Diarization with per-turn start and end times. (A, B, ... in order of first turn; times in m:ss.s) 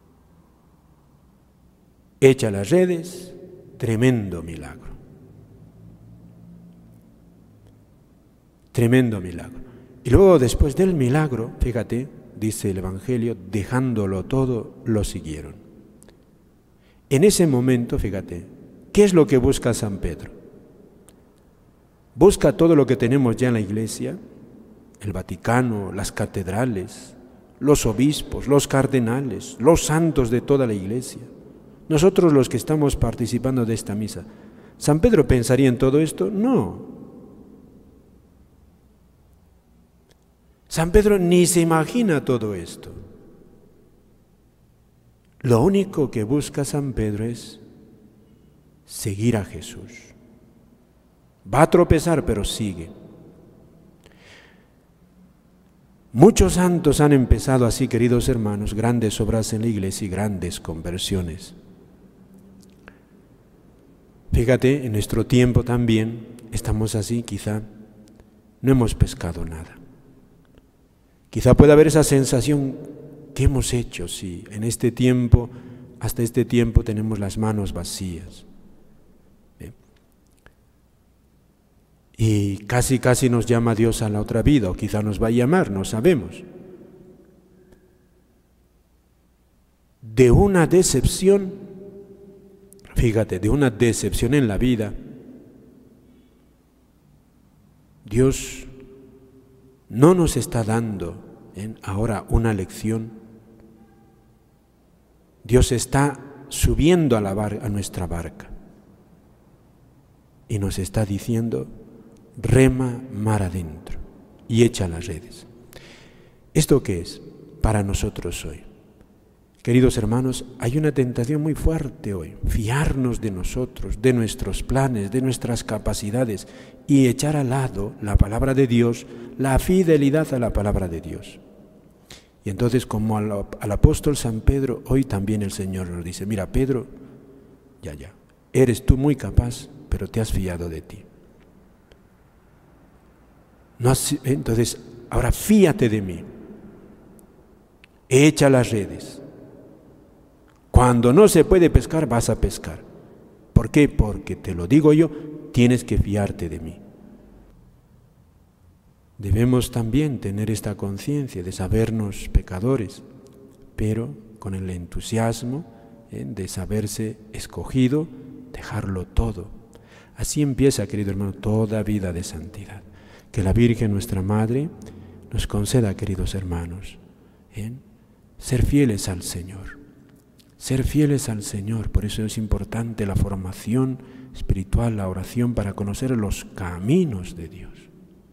0:02.2-0:05.0 A
0:08.7-0:15.6 A
0:17.1-0:20.3 A
0:22.2-0:24.2 A
0:25.0-0:31.3 A
0:31.9-0:34.3 A
0:34.8-0:36.9 A
0:40.7-0:43.0 A
0:45.4-0:47.6 A
0:48.9-0:50.1 A
0:51.4-0:52.9 A
0:56.1-1:01.6 A
1:04.3-1:07.6 A
1:08.6-1:09.8 A
1:11.3-1:18.5 A
1:22.2-1:26.5 A
1:30.0-1:31.6 A
1:33.0-1:35.0 A
1:38.0-1:38.7 A
1:39.9-1:43.2 A
1:45.4-1:48.5 A
1:50.5-1:51.7 A
1:52.4-1:55.5 A
1:56.5-1:58.6 A
1:59.6-2:11.4 A
2:12.4-2:16.9 A
2:17.8-2:21.1 A
2:23.8-2:26.3 A
2:28.1-2:29.2 A
2:30.7-2:32.8 A
2:33.5-2:36.8 A
2:39.2-2:43.0 A
2:43.8-2:49.5 A
2:50.2-2:54.7 A
2:55.3-2:57.0 A
2:57.5-2:57.8 A
2:58.4-2:59.8 A
3:00.6-3:07.9 A